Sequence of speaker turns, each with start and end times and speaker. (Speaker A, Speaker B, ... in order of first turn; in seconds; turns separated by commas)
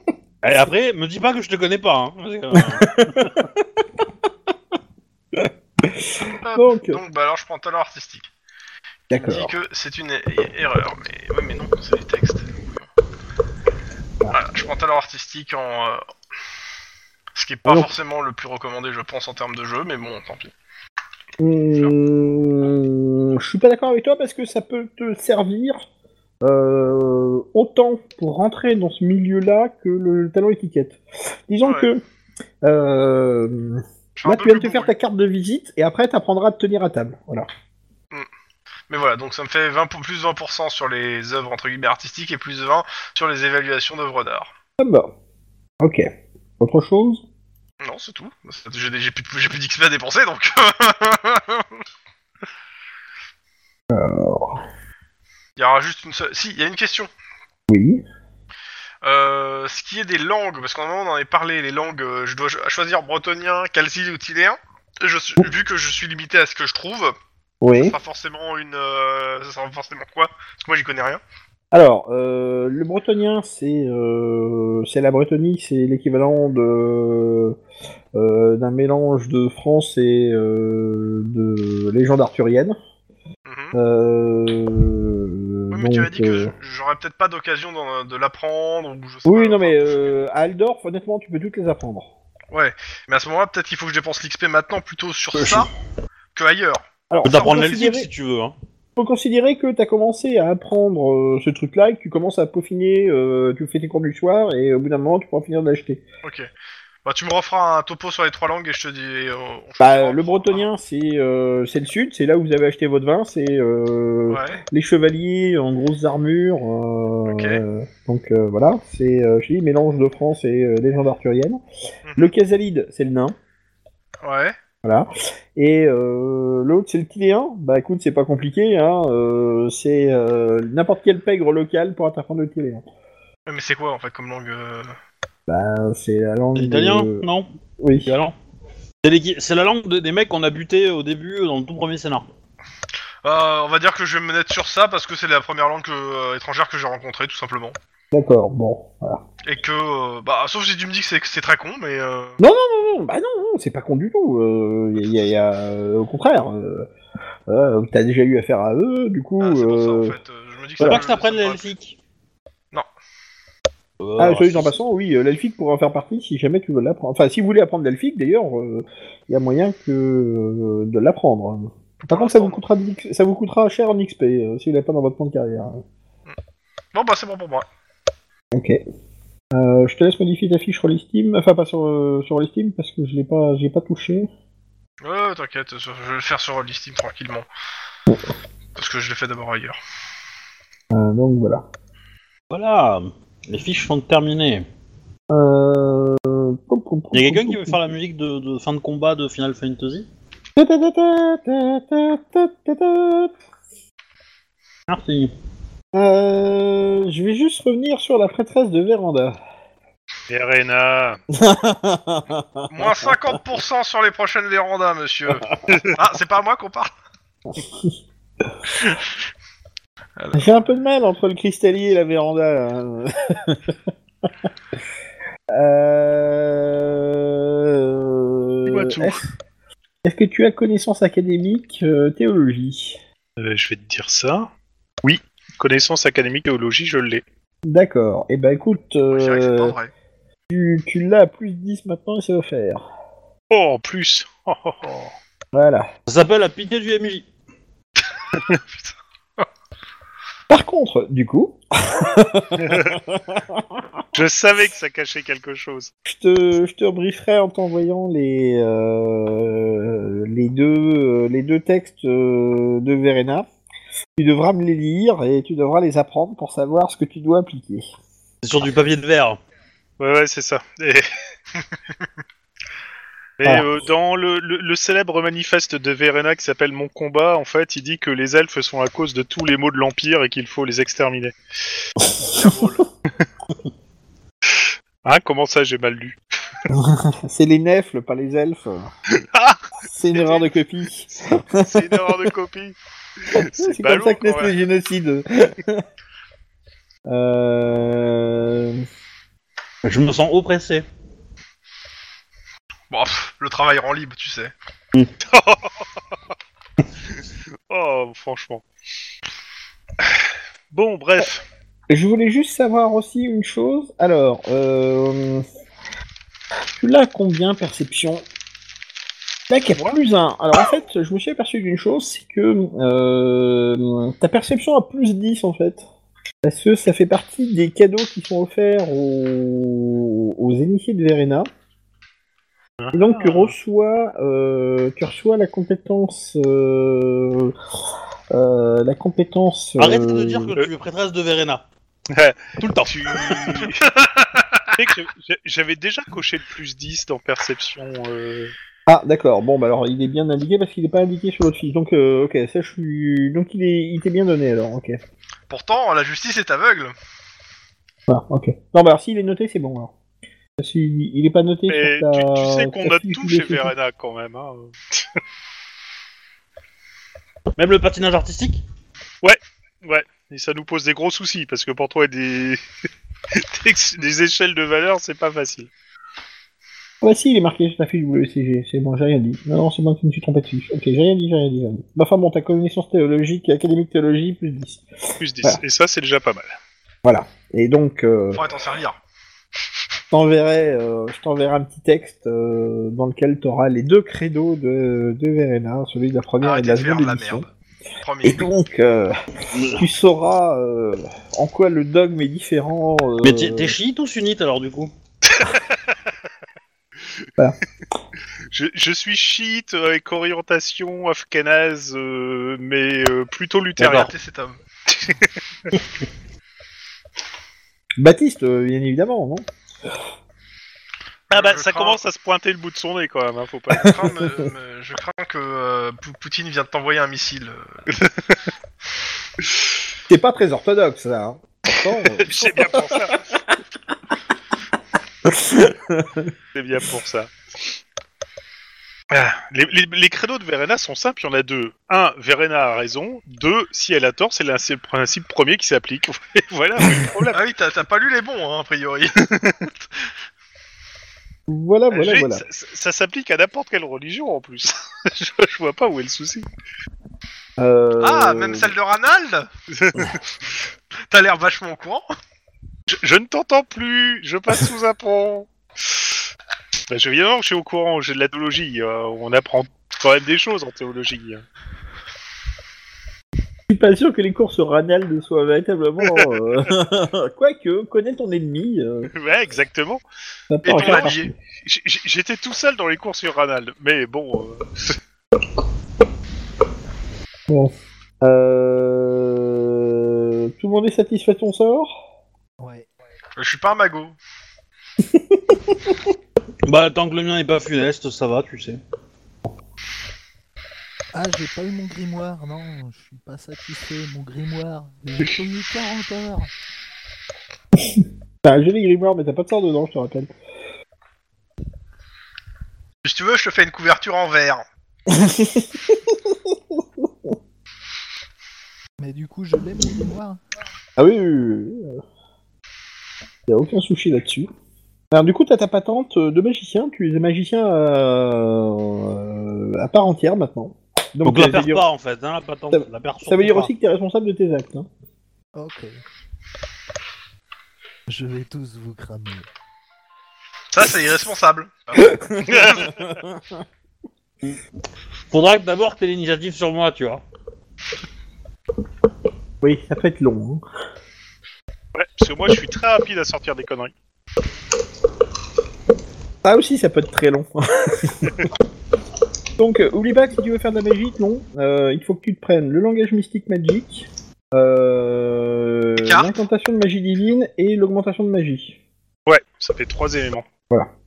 Speaker A: 0.4-3.3, Speaker B: 2.5-3.5, Speaker B: 5.3-7.0, Speaker C: 6.4-8.3, Speaker B: 9.1-9.5, Speaker C: 9.1-12.9, Speaker C: 14.3-16.0, Speaker C: 17.3-20.5, Speaker B: 17.6-17.9, Speaker B: 21.4-25.9, Speaker B: 26.4-32.0, Speaker B: 32.6-37.5, Speaker C: 34.2-34.9, Speaker C: 38.9-44.5, Speaker B: 44.8-45.1, Speaker B: 45.8-46.1, Speaker B: 46.6-47.2, Speaker C: 47.8-51.7, Speaker B: 53.9-54.6, Speaker C: 55.6-57.1, Speaker B: 57.7-58.0, Speaker C: 59.0-67.2, Speaker B: 67.6-68.0, Speaker C: 67.7-71.2, Speaker B: 71.7-77.6, Speaker B: 78.1-82.8, Speaker C: 83.5-83.8, Speaker B: 83.7-86.5, Speaker C: 85.7-90.2, Speaker B: 89.2-92.1, Speaker C: 92.5-95.7, Speaker A: 95.3-95.7, Speaker C: 96.3-97.6, Speaker B: 97.1-98.1, Speaker A: 97.2-98.5, Speaker B: 99.0-106.0, Speaker C: 106.2-106.5, Speaker C: 107.0-110.7, Speaker B: 109.8-121.6, Speaker C: 114.3-114.6, Speaker C: 117.3-117.6, Speaker C: 122.0-122.3, Speaker B: 122.2-123.3, Speaker C: 124.2-124.5, Speaker B: 124.8-132.8, Speaker C: 133.4-134.9, Speaker B: 135.5-137.2, Speaker A: 136.5-137.5, Speaker B: 137.8-138.1, Speaker A: 138.1-138.3, Speaker A: 139.0-142.2, Speaker C: 143.2-147.8, Speaker B: 148.1-149.2, Speaker C: 149.4-152.4, Speaker B: 152.4-156.9, Speaker B: 157.5-160.2, Speaker C: 159.4-161.7, Speaker A: 160.8-162.0, Speaker A: 164.0-164.7, Speaker B: 164.2-175.8, Speaker C: 172.0-172.6, Speaker C: 176.9-177.7, Speaker B: 178.5-178.8, Speaker B: 179.5-184.3, Speaker C: 185.0-187.5, Speaker C: 188.8-189.8, Speaker B: 190.9-191.6, Speaker A: 192.5-194.7, Speaker B: 195.3-197.9, Speaker A: 197.1-200.1, Speaker B: 200.6-203.3, Speaker A: 204.9-205.3, Speaker B: 205.9-209.4, Speaker D: 210.3-211.2, Speaker B: 211.3-213.2, Speaker C: 212.7-216.9, Speaker B: 217.5-218.5, Speaker C: 220.2-220.5, Speaker B: 220.3-223.8, Speaker B: 225.5-229.2, Speaker D: 228.7-229.2, Speaker B: 230.0-233.0, Speaker D: 233.4-234.5, Speaker D: 235.0-237.2, Speaker B: 237.7-239.7, Speaker C: 239.1-239.9, Speaker B: 240.5-242.8, Speaker D: 243.5-245.1, Speaker B: 245.5-245.9, Speaker A: 246.1-247.3, Speaker C: 248.7-249.4, Speaker B: 250.5-254.0, Speaker D: 252.6-252.9, Speaker D: 254.1-255.9, Speaker B: 256.1-263.5, Speaker B: 264.2-267.9, Speaker A: 268.4-269.4, Speaker D: 270.0-271.0, Speaker D: 273.4-281.3, Speaker B: 282.0-282.5, Speaker D: 282.3-282.8, Speaker D: 285.0-286.2, Speaker B: 286.7-288.9, Speaker D: 289.2-290.5, Speaker B: 289.9-292.2, Speaker D: 291.5-294.5, Speaker B: 293.3-295.8, Speaker B: 297.1-298.9, Speaker A: 299.8-300.8, Speaker C: 302.9-304.5, Speaker D: 305.2-305.9, Speaker D: 307.1-308.6, Speaker D: 310.7-311.4, Speaker B: 311.9-315.4, Speaker B: 316.8-318.2, Speaker B: 319.5-325.8, Speaker B: 326.4-331.5, Speaker D: 332.8-333.5, Speaker B: 332.9-337.5, Speaker B: 338.3-340.5, Speaker A: 339.8-341.6, Speaker D: 342.1-343.9, Speaker A: 342.6-343.7, Speaker D: 344.7-348.5, Speaker B: 348.9-355.0, Speaker C: 355.5-356.9, Speaker B: 358.1-359.9, Speaker B: 360.6-363.7, Speaker D: 361.7-365.0, Speaker A: 367.6-368.6, Speaker D: 369.2-372.6, Speaker D: 373.3-375.7, Speaker B: 377.0-384.8, Speaker D: 385.2-386.5, Speaker B: 387.0-388.5, Speaker C: 388.3-389.0, Speaker B: 390.1-397.4, Speaker C: 396.4-397.5, Speaker C: 398.0-398.5, Speaker B: 398.2-399.1, Speaker A: 399.5-399.8, Speaker B: 399.7-403.8, Speaker A: 403.2-404.9, Speaker D: 405.3-405.9, Speaker D: 408.5-414.1, Speaker A: 413.8-414.1, Speaker C: 413.8-414.6, Speaker D: 414.9-415.7, Speaker B: 418.0-419.5, Speaker C: 421.3-422.0, Speaker D: 421.3-423.9, Speaker C: 423.8-427.7, Speaker B: 423.8-424.5, Speaker D: 427.9-428.4, Speaker B: 430.1-433.1, Speaker D: 432.1-433.2, Speaker B: 435.2-436.3, Speaker D: 436.5-437.3, Speaker D: 439.1-447.4, Speaker C: 447.3-450.1, Speaker B: 451.5-452.4, Speaker D: 451.9-456.4, Speaker B: 457.6-458.7, Speaker C: 458.0-459.5, Speaker D: 459.7-460.2, Speaker C: 461.1-462.1, Speaker D: 462.9-466.0, Speaker D: 466.9-471.4, Speaker B: 473.7-479.1, Speaker D: 479.1-480.0, Speaker B: 480.5-481.3, Speaker C: 480.6-481.3, Speaker D: 480.7-481.1, Speaker D: 481.6-485.0, Speaker B: 487.5-491.9, Speaker E: 492.6-492.9, Speaker C: 493.4-494.2, Speaker B: 495.0-495.9, Speaker A: 496.6-498.8, Speaker E: 501.1-506.5, Speaker B: 507.9-510.3, Speaker C: 513.0-514.6, Speaker B: 515.1-517.3, Speaker E: 519.0-520.4, Speaker B: 521.0-522.0, Speaker B: 523.5-524.5, Speaker B: 525.1-531.8, Speaker A: 531.2-533.7, Speaker B: 532.7-534.9, Speaker E: 535.5-536.0, Speaker E: 538.1-539.5, Speaker C: 540.7-542.1, Speaker B: 541.9-543.6, Speaker D: 542.5-543.2, Speaker A: 545.3-547.2, Speaker B: 549.6-550.6, Speaker D: 551.9-553.9, Speaker B: 556.4-558.3, Speaker B: 559.6-568.8, Speaker C: 566.0-566.4, Speaker D: 569.3-570.5